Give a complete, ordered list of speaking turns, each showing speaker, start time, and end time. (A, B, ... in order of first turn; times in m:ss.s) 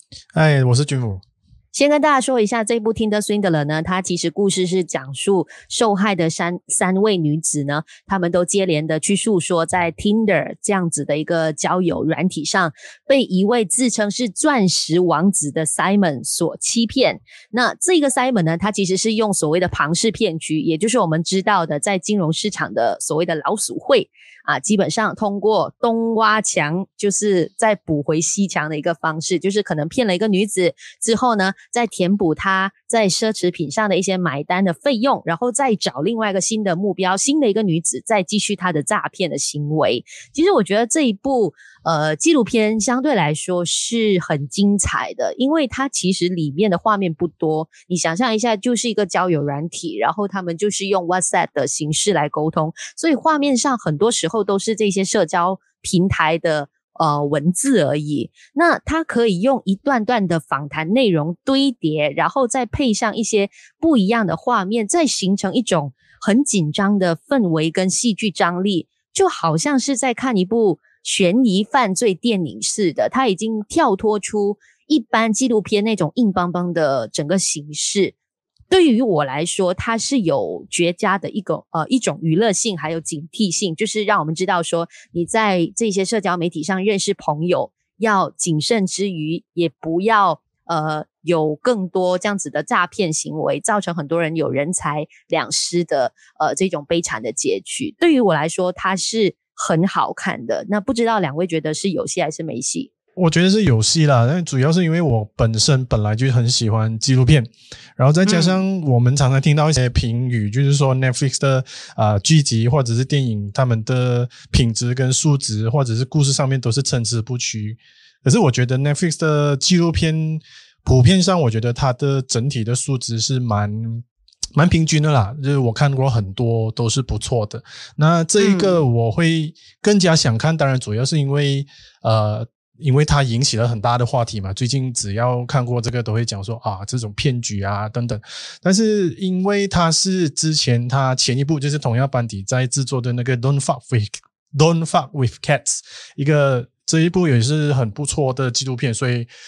0:00.3-0:01.2 A
0:01.7-1:18.1 B
1:18.7-1:42.9 B
1:43.2-2:04.0 A
1:48.2-1:48.6 B
2:04.5-2:29.3 A
2:08.4-2:08.8 B